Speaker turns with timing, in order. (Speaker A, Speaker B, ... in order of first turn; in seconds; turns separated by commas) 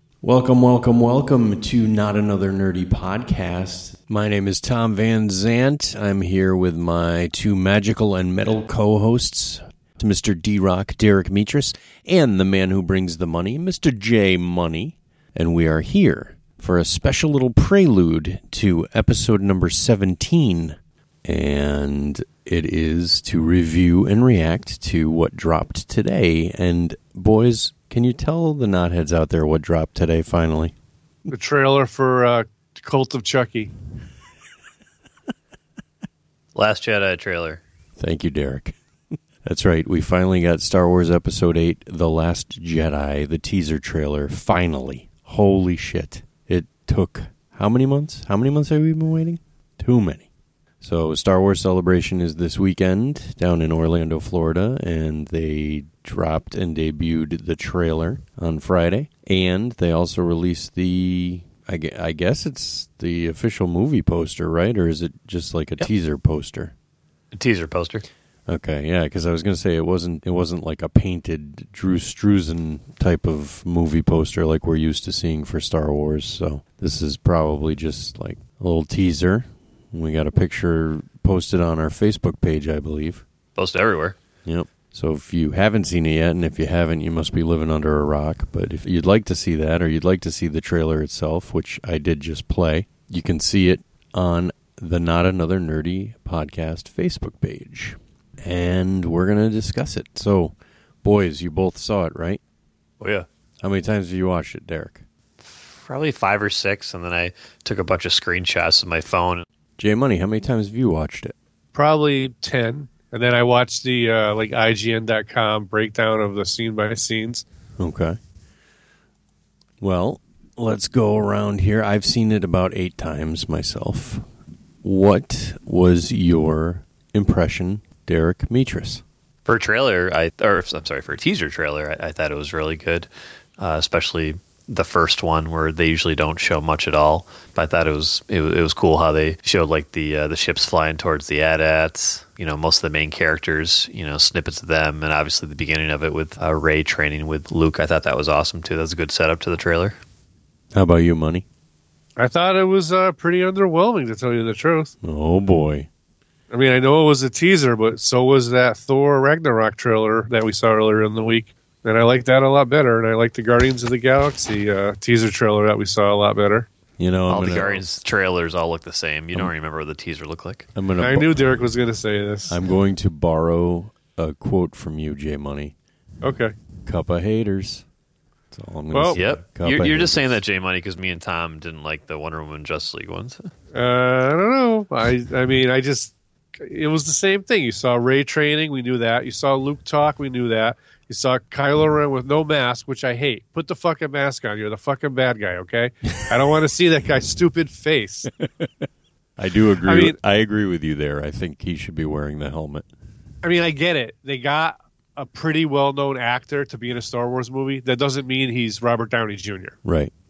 Speaker A: 0.2-30.7, Speaker B: 31.3-33.7, Speaker C: 36.5-37.6, Speaker A: 38.0-38.8, Speaker A: 39.4-50.3, Speaker A: 50.8-66.7, Speaker C: 67.3-68.0, Speaker A: 68.5-83.2, Speaker C: 83.6-84.2, Speaker A: 84.5-102.4, Speaker C: 103.0-103.3, Speaker A: 103.6-105.0, Speaker C: 105.4-109.5, Speaker A: 109.8-111.3, Speaker B: 111.7-117.4, Speaker A: 117.8-118.2, Speaker A: 119.8-124.3, Speaker A: 124.8-129.0, Speaker C: 129.5-150.0, Speaker A: 150.7-151.4, Speaker B: 152.2-154.9, Speaker A: 155.0-155.9, Speaker B: 156.5-166.7, Speaker A: 167.0-167.8, Speaker C: 167.3-170.7, Speaker A: 170.8-171.6, Speaker B: 171.0-172.6, Speaker A: 172.5-175.7, Speaker B: 176.2-176.6, Speaker A: 176.8-177.8, Speaker A: 178.5-180.4, Speaker B: 178.9-179.2, Speaker C: 179.2-183.5, Speaker B: 183.7-198.3, Speaker A: 199.4-202.9, Speaker B: 199.8-200.2, Speaker B: 203.4-209.8, Speaker A: 209.8-210.1